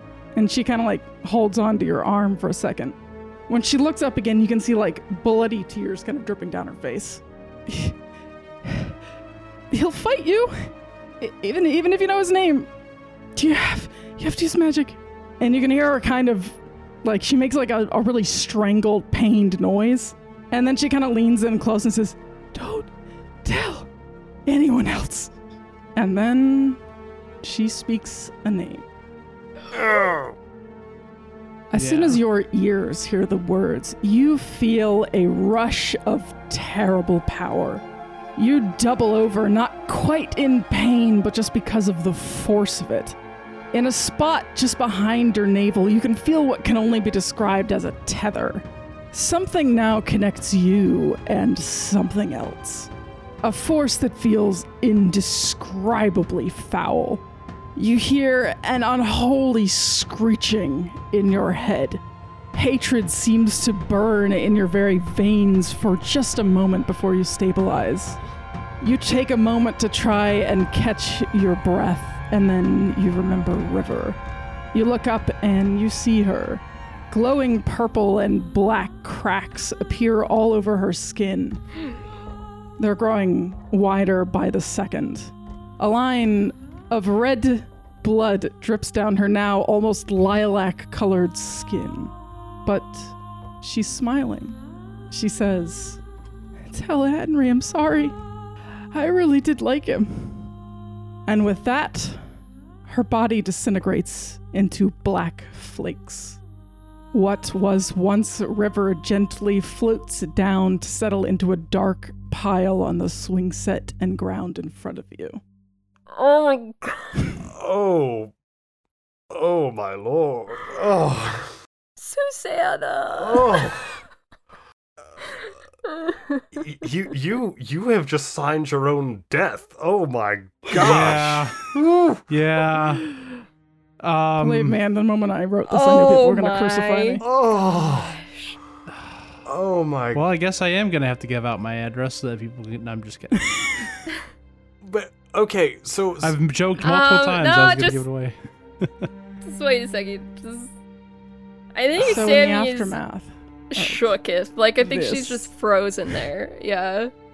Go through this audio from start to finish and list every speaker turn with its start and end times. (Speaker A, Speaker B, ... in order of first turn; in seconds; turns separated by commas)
Speaker A: 0.3-3.0, Speaker A: 3.5-8.0, Speaker A: 8.6-8.9, Speaker A: 9.7-10.7, Speaker A: 11.2-12.7, Speaker A: 13.3-22.9, Speaker A: 23.4-23.9, Speaker A: 24.4-25.3, Speaker A: 25.9-26.8, Speaker A: 27.4-28.8, Speaker B: 29.7-30.3, Speaker A: 31.7-37.8, Speaker C: 31.7-32.2, Speaker A: 38.4-43.1, Speaker A: 43.7-52.9, Speaker A: 53.4-57.2, Speaker A: 57.8-62.0, Speaker A: 62.5-68.2, Speaker A: 68.8-74.2, Speaker A: 74.7-81.6, Speaker A: 82.8-92.1, Speaker A: 92.6-94.6, Speaker A: 95.1-96.0, Speaker A: 96.7-98.1, Speaker A: 98.9-100.5, Speaker A: 101.2-102.2, Speaker A: 102.9-106.4, Speaker A: 107.1-115.4, Speaker D: 116.1-117.3, Speaker B: 117.4-118.3, Speaker B: 119.3-121.5, Speaker D: 122.0-123.8, Speaker B: 123.1-124.0, Speaker D: 125.3-126.6, Speaker B: 126.5-132.2, Speaker C: 130.7-131.7, Speaker C: 132.3-133.0, Speaker C: 134.0-134.8, Speaker A: 134.4-137.2, Speaker D: 135.7-137.2, Speaker B: 137.2-138.2, Speaker D: 137.8-138.6, Speaker B: 139.4-140.2, Speaker C: 140.1-143.8, Speaker A: 143.5-143.8, Speaker B: 144.8-146.3, Speaker C: 146.2-149.1, Speaker D: 146.8-148.0, Speaker D: 149.4-150.7, Speaker D: 151.7-152.9, Speaker A: 152.0-154.1, Speaker D: 153.7-157.1, Speaker A: 154.8-155.5